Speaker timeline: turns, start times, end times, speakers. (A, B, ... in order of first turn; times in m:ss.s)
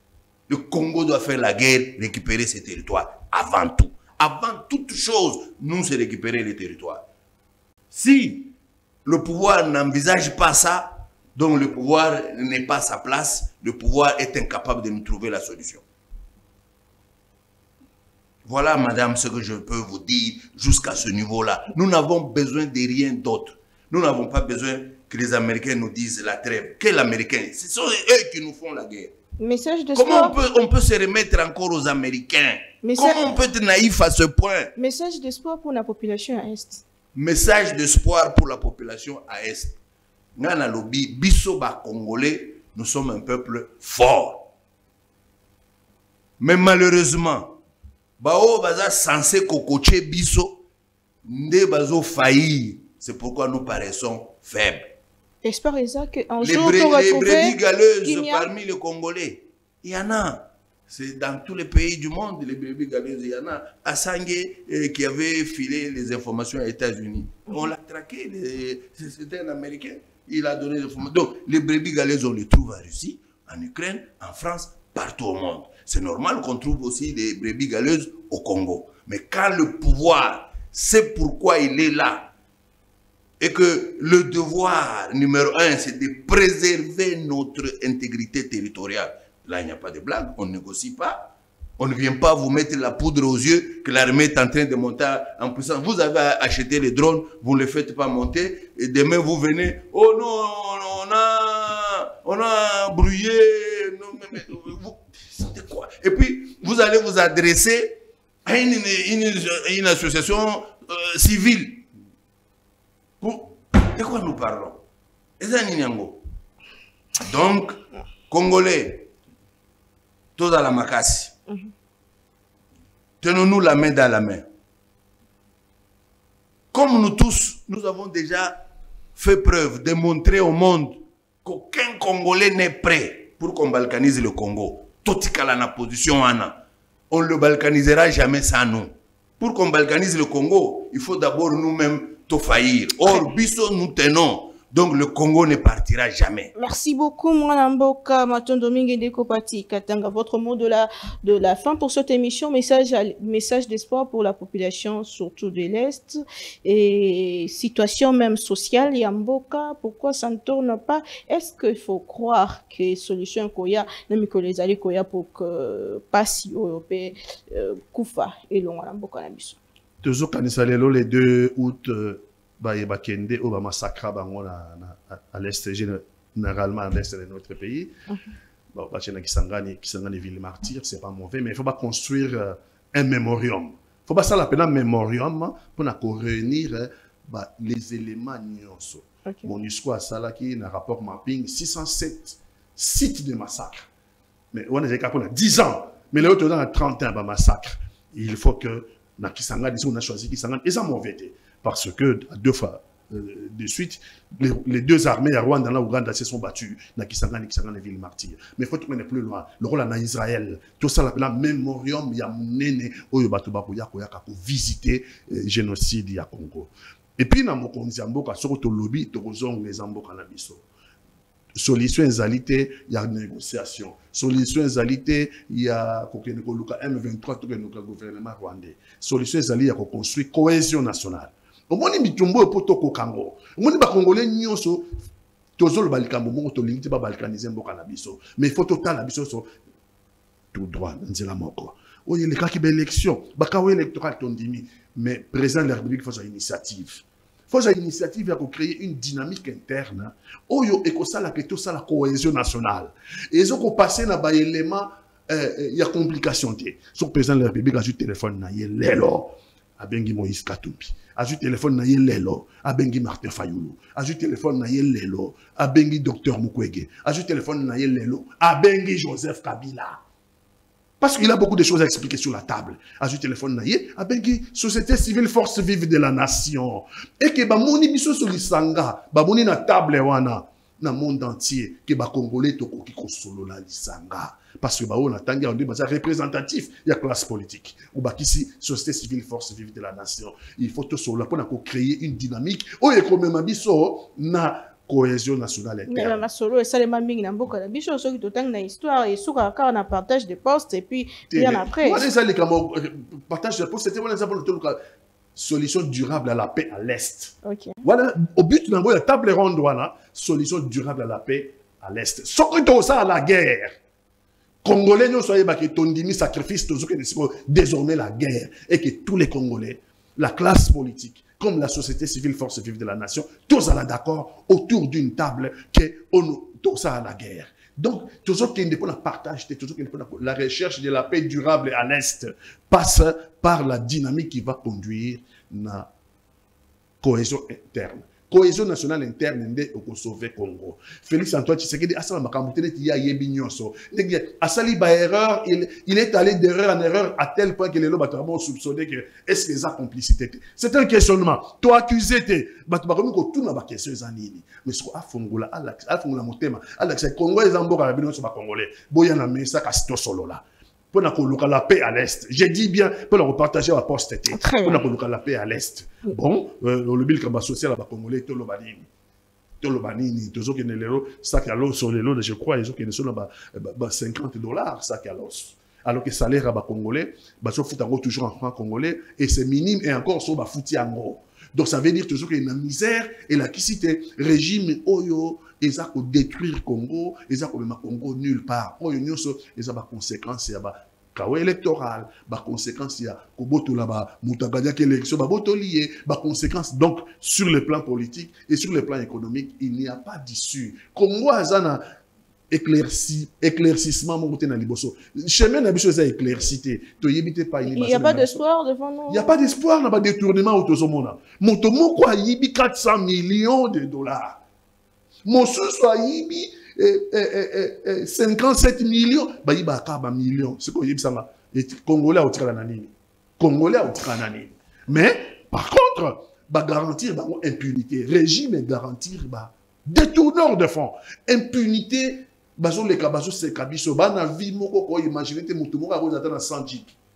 0:00.5-0:07.0 A
0:07.9-0:08.5 A
0:09.0-0:15.8 A
0:18.4-0:29.2 A
0:29.4-0:30.3 B
0:29.9-0:34.7 A
0:32.8-0:33.3 B
0:34.8-0:36.8 B
0:37.1-0:39.8 A
0:40.4-0:44.5 A
0:46.4-0:47.6 A
0:48.2-0:50.6 A
0:51.2-0:54.9 A
0:55.4-0:58.5 B
0:56.4-1:22.3 A
1:23.4-1:51.9 A
1:53.2-1:54.8 A
1:55.4-1:56.2 A
1:57.2-1:59.1 A
2:00.4-2:01.3 A
2:03.2-2:04.4 A
2:06.7-2:08.6 A
2:09.2-2:16.6 A
2:17.1-2:26.5 A
2:23.0-2:23.3 B
2:26.6-2:49.6 B
2:50.0-2:57.9 C
2:58.7-3:13.9 C
3:14.5-3:40.6 C
3:41.6-3:54.9 C
3:55.6-3:59.5 C
4:00.5-4:30.0 C
4:31.0-4:56.2 C
4:55.9-5:02.1 B
5:01.3-5:04.8 C
5:05.4-5:13.8 C
5:07.4-5:07.8 B
5:14.6-5:35.9 C
5:37.0-6:08.9 C
6:04.3-6:04.8 B
6:09.6-6:41.8 C
6:42.5-6:48.4 C
6:47.6-6:49.4 B
6:49.1-6:54.4 C
6:55.2-7:16.9 C